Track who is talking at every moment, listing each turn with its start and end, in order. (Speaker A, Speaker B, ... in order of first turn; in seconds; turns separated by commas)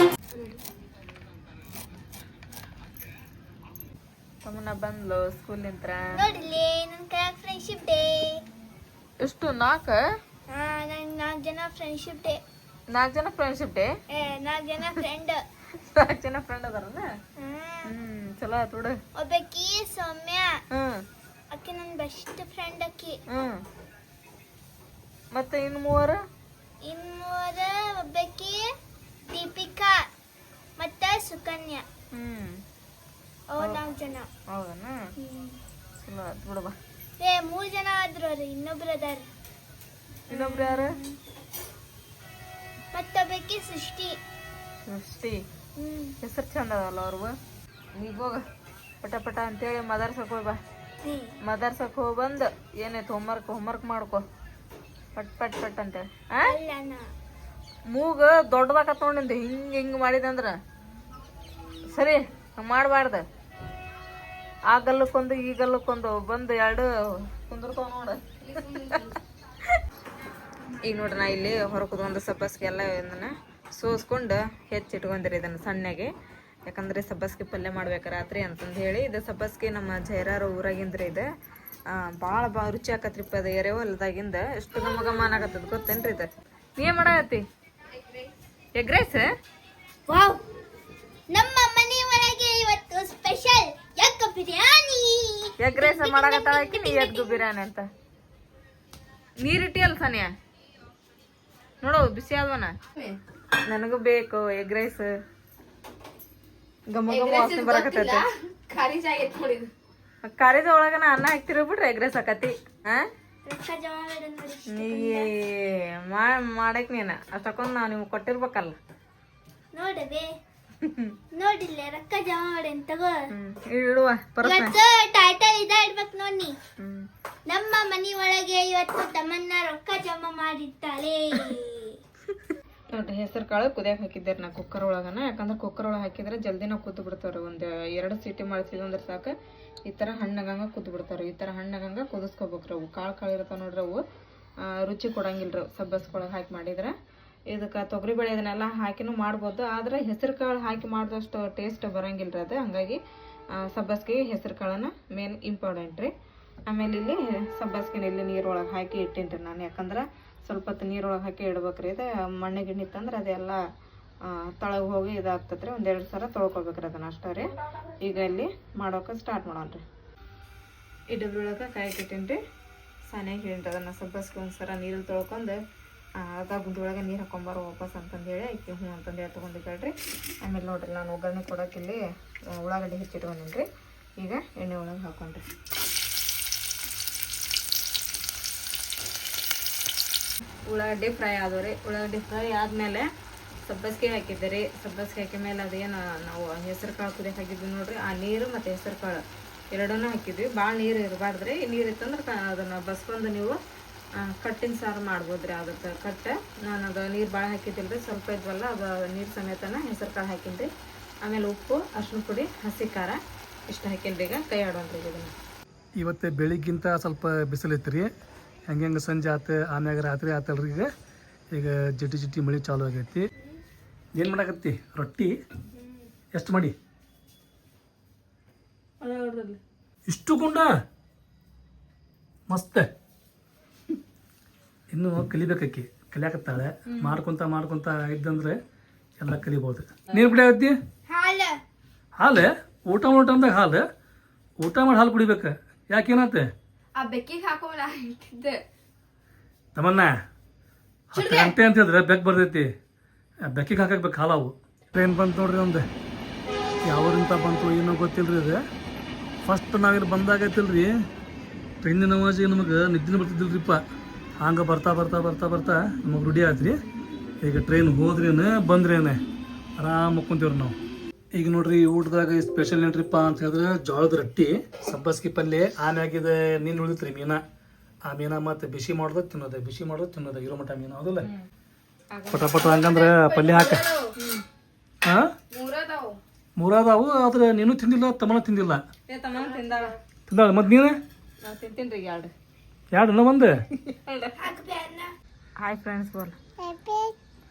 Speaker A: 4.4-6.1, Speaker B: 6.1-8.4, Speaker A: 9.2-10.0, Speaker B: 10.5-12.4, Speaker A: 12.9-13.9, Speaker B: 14.1-15.4, Speaker A: 15.8-17.1, Speaker B: 17.4-17.9, Speaker A: 17.9-19.0, Speaker B: 19.1-20.6, Speaker A: 20.7-21.0, Speaker B: 21.5-23.2, Speaker A: 23.3-23.6, Speaker A: 25.3-26.2, Speaker B: 26.8-28.7, Speaker B: 29.3-30.0, Speaker B: 30.8-31.9, Speaker A: 32.1-32.6, Speaker B: 33.5-34.3, Speaker A: 34.5-35.1, Speaker B: 35.2-35.6, Speaker A: 36.0-36.8, Speaker B: 37.2-39.3, Speaker B: 40.3-41.2, Speaker A: 40.3-40.9, Speaker B: 42.9-44.2, Speaker A: 44.9-45.4, Speaker B: 45.8-46.2, Speaker A: 46.2-47.3, Speaker A: 48.0-48.4, Speaker A: 49.0-50.6, Speaker B: 51.0-51.4, Speaker A: 51.4-54.2, Speaker A: 55.1-56.5, Speaker B: 56.5-57.1, Speaker A: 57.9-60.6, Speaker A: 61.9-63.2, Speaker A: 64.7-69.1, Speaker C: 68.5-69.1, Speaker A: 70.7-76.1, Speaker A: 76.7-81.3, Speaker A: 81.9-87.4, Speaker A: 88.8-89.3, Speaker B: 90.1-90.4, Speaker B: 91.3-97.4, Speaker A: 95.6-97.9, Speaker A: 99.4-100.3, Speaker A: 101.8-102.7, Speaker A: 103.7-105.1, Speaker A: 106.9-108.2, Speaker C: 107.1-109.7, Speaker A: 110.3-113.1, Speaker B: 113.5-115.3, Speaker A: 114.7-118.8, Speaker B: 119.7-120.3, Speaker A: 120.8-121.1, Speaker B: 121.4-123.2, Speaker A: 123.3-124.8, Speaker B: 124.4-126.6, Speaker A: 126.8-127.1, Speaker B: 127.5-132.0, Speaker A: 132.9-139.3, Speaker A: 139.9-144.0, Speaker A: 144.7-146.9, Speaker A: 147.5-153.0, Speaker A: 153.6-156.1, Speaker A: 156.7-163.6, Speaker A: 164.2-169.8, Speaker A: 171.1-172.4, Speaker A: 173.1-175.6, Speaker A: 176.2-183.7, Speaker A: 184.2-185.4, Speaker A: 190.7-193.1, Speaker A: 193.7-203.6, Speaker A: 204.2-210.7, Speaker A: 211.2-213.2, Speaker A: 213.7-215.3, Speaker D: 216.0-218.1, Speaker D: 218.7-220.9, Speaker D: 221.5-223.3, Speaker D: 224.2-225.3, Speaker D: 226.3-226.8, Speaker A: 229.0-229.6, Speaker D: 230.1-230.7, Speaker D: 232.5-232.9, Speaker D: 234.9-238.6, Speaker A: 236.9-237.2, Speaker D: 239.2-240.8, Speaker B: 241.1-241.6, Speaker D: 242.2-243.8, Speaker D: 244.6-246.5, Speaker C: 247.0-248.6, Speaker D: 249.8-250.1, Speaker D: 251.1-252.7, Speaker C: 251.2-251.5, Speaker D: 253.4-255.9, Speaker D: 256.9-258.6, Speaker D: 259.4-260.9, Speaker D: 261.8-263.8, Speaker D: 264.4-266.8, Speaker D: 267.4-269.2, Speaker D: 269.8-270.8, Speaker D: 271.4-277.4, Speaker D: 278.1-281.3, Speaker A: 282.1-282.5, Speaker D: 282.3-283.9, Speaker C: 282.6-284.1, Speaker A: 284.2-284.4, Speaker C: 285.5-286.2, Speaker D: 286.6-288.8, Speaker A: 289.1-289.9, Speaker D: 290.3-291.0, Speaker A: 291.4-292.3, Speaker D: 292.9-293.6, Speaker A: 293.8-294.4, Speaker B: 294.4-295.1, Speaker A: 295.6-296.4, Speaker B: 296.6-297.1